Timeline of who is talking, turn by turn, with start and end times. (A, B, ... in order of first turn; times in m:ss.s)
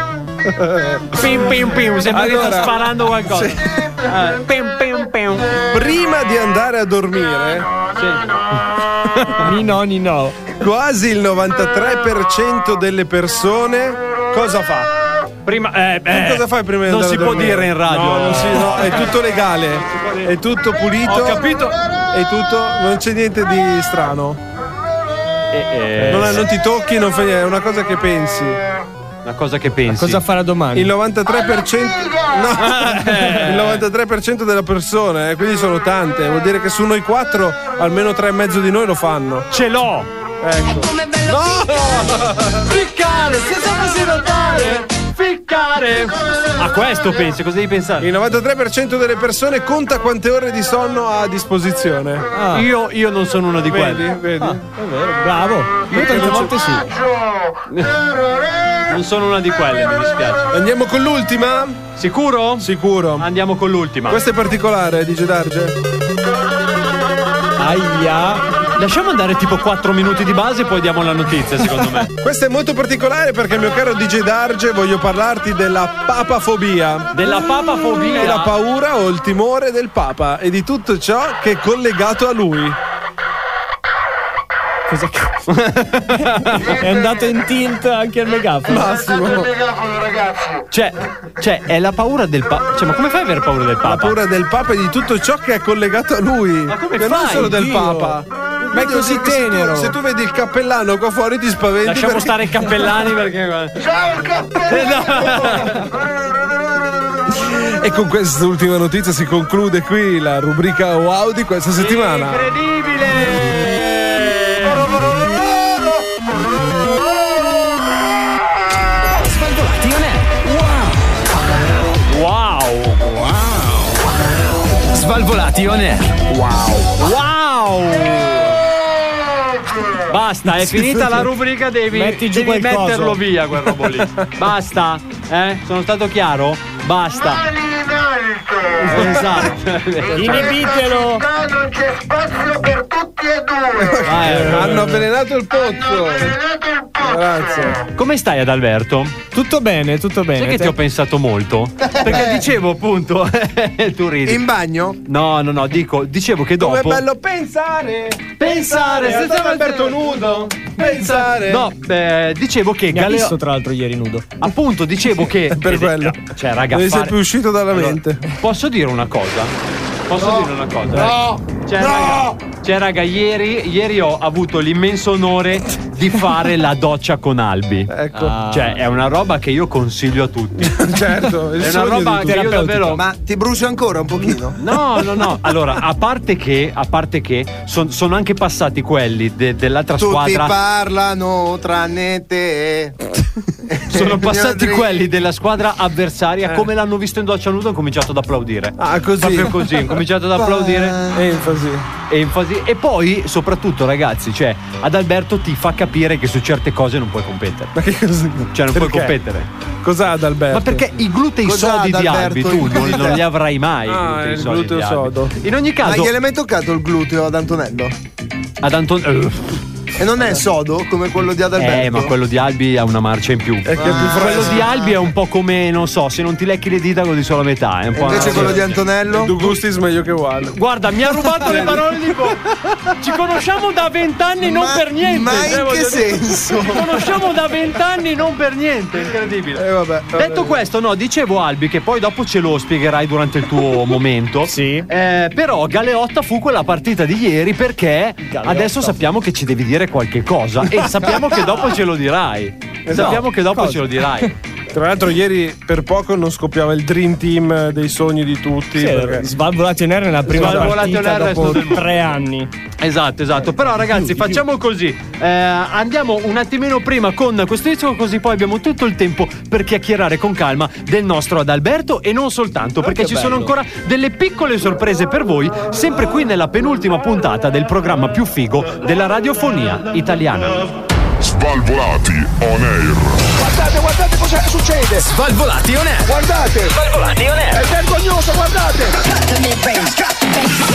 0:00.4-0:03.8 A
0:01.2-0:05.5 B
0:05.7-0:07.7 A
0:08.0-0:08.4 B
0:09.2-0:09.4 B
0:09.4-0:10.4 C
0:10.5-0:14.9 A
0:15.4-0:19.1 B
0:16.1-0:21.4 A
0:21.0-0:21.8 B
0:22.1-0:24.4 A
0:25.5-0:26.5 B
0:26.0-0:26.4 C
0:26.1-0:28.6 A
0:29.2-0:30.2 B
0:29.9-0:30.9 C
0:30.7-0:39.5 A
0:32.6-0:33.8 B
0:39.5-0:40.1 B
0:40.4-0:42.6 A
0:42.4-0:48.1 B
0:48.0-0:52.3 A
0:52.3-0:52.7 C
0:52.5-0:54.1 B
0:53.7-0:54.6 A
0:54.4-0:56.9 C
0:55.9-0:56.5 B
0:55.9-0:56.5 A
0:57.7-0:58.0 B
0:58.9-1:00.5 B
1:00.5-1:01.8 A
1:02.0-1:04.2 B
1:02.6-1:03.3 A
1:04.1-1:05.8 A
1:07.6-1:08.4 C
1:08.8-1:12.1 B
1:12.2-1:17.2 A
1:17.1-1:18.5 B
1:18.1-1:22.8 A
1:24.9-1:25.4 C
1:25.5-1:26.8 B
1:26.2-1:28.9 C
1:28.7-1:29.5 A
1:30.7-1:34.2 B
1:33.8-1:42.4 A
1:36.7-1:37.6 B
1:37.4-1:40.0 C
1:41.8-1:43.9 B
1:44.5-1:46.0 B
1:47.3-1:52.5 A
1:51.8-1:54.9 B
1:59.2-2:00.9 D
2:02.1-2:03.1 B
2:04.9-2:06.9 D
2:07.0-2:08.6 B
2:10.1-2:17.5 B
2:10.6-2:11.2 A
2:11.9-2:13.2 C
2:18.9-2:19.5 A
2:18.9-2:20.6 B
2:20.1-2:21.3 C
2:23.8-2:26.4 A
2:24.0-2:25.0 B
2:24.6-2:25.0 C
2:27.0-2:27.8 A
2:28.0-2:29.2 B
2:29.3-2:30.8 C
2:30.4-2:34.4 B
2:32.0-2:32.5 E
2:34.2-2:35.0 E
2:35.0-2:37.0 B
2:36.6-2:41.7 A
2:38.4-2:43.4 B
2:42.9-2:44.4 C
2:44.4-2:47.2 B
2:45.5-2:48.2 A
2:47.7-2:49.5 B
2:50.1-2:58.0 B
2:50.2-2:52.3 A
2:57.9-2:58.4 A
2:58.1-2:58.8 C
2:58.5-3:00.9 B
3:00.6-3:02.5 A
3:01.6-3:03.0 B
3:02.2-3:03.0 C
3:02.9-3:04.6 E
3:04.6-3:10.6 B
3:10.0-3:13.0 E
3:13.6-3:15.0 E
3:13.9-3:21.0 B
3:18.8-3:19.8 A
3:20.3-3:21.4 E
3:21.1-3:21.9 A
3:22.1-3:27.8 B
3:27.8-3:29.2 A
3:28.5-3:29.5 B
3:29.8-3:30.9 A
3:30.5-3:36.1 B
3:31.4-3:33.2 E
3:33.9-3:35.4 A
3:35.8-3:38.0 E
3:38.6-3:39.6 B
3:40.0-3:42.1 E
3:41.6-3:48.8 B
3:43.7-3:44.7 A
3:43.8-3:45.0 E
3:48.0-3:49.5 E
3:48.1-3:50.6 A
3:50.5-3:52.4 B
3:51.2-3:52.0 A
3:53.0-4:14.4 B
3:54.4-3:56.9 E
3:59.6-4:00.6 A
4:04.4-4:04.9 C
4:08.2-4:09.0 C
4:10.8-4:11.3 A
4:12.9-4:13.2 A
4:12.9-4:14.3 C
4:14.7-4:19.3 A
4:18.8-4:22.5 C
4:20.3-4:20.8 A
4:20.3-4:21.9 B
4:22.8-4:40.6 B
4:23.4-4:24.4 C
4:32.8-4:33.5 C
4:41.2-4:43.2 F
4:43.3-4:45.1 G
4:45.0-4:46.1 D
4:46.0-4:46.8 G
4:46.8-4:47.6 D
4:47.5-4:49.0 G
4:49.3-4:50.4 D